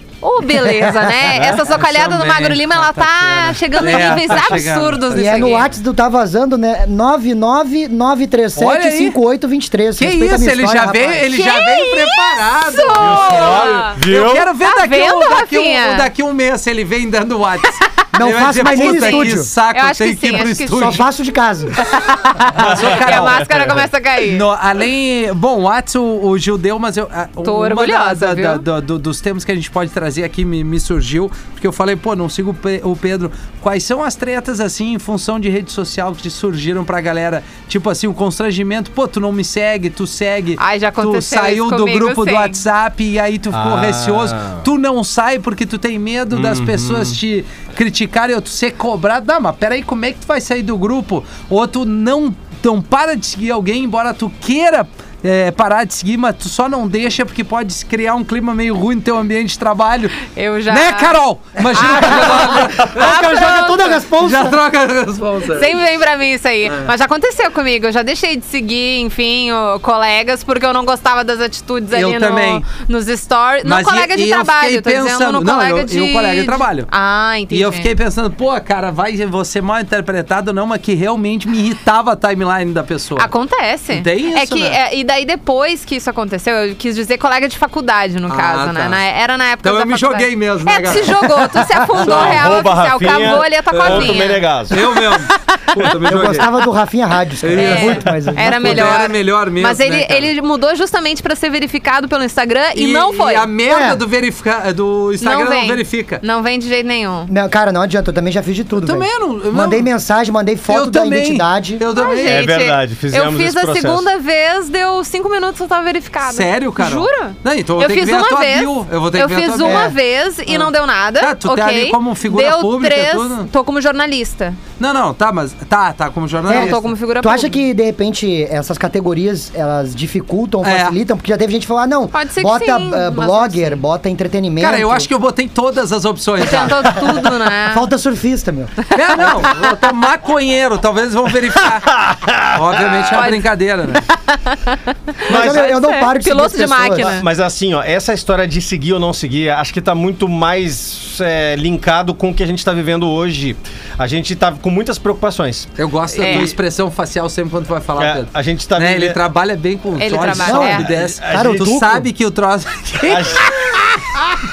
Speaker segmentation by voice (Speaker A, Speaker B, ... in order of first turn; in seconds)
Speaker A: 0.2-5.7, 11.3-14.0, 14.6-16.1, 18.7-21.0, 21.8-24.4, 27.4-28.6, 40.6-42.6, 60.2-64.0, 65.5-77.9, 83.2-94.5, 97.6-103.5, 105.2-107.3, 112.0-124.6, 126.5-127.6, 132.1-133.8, 136.4-137.9, 138.9-139.1, 143.1-147.3, 156.2-156.5, 160.0-160.8
Speaker B: 1.5-5.6, 8.6-9.2, 9.9-21.0, 22.5-23.4, 24.2-63.4, 64.2-65.7, 71.9-72.6, 73.6-76.9, 77.5-83.3, 83.9-84.8, 88.3-89.0, 89.6-92.4, 93.7-96.6, 97.4-100.3, 102.7-106.2, 108.8-109.9, 110.7-112.5, 116.2-119.9, 120.5-123.5, 124.8-126.9, 130.6-130.9, 134.6-136.9, 138.9-141.9, 142.5-144.0, 155.8-163.8
Speaker C: 5.1-11.3, 18.1-19.5, 20.7-21.8, 61.8-64.6, 96.0-99.1, 103.7-104.0, 107.3-111.8, 119.6-120.0, 126.5-135.1, 137.7-139.6, 145.2-147.2, 160.4-162.1
Speaker D: 12.9-14.5, 22.6-23.8, 43.5-44.6, 46.3-47.2, 91.9-95.2, 95.8-96.2, 112.1-114.0, 141.8-143.2, 145.3-145.7, 147.0-155.7, 156.2-156.5, 158.0-159.2, 160.8-161.8, 163.0-163.9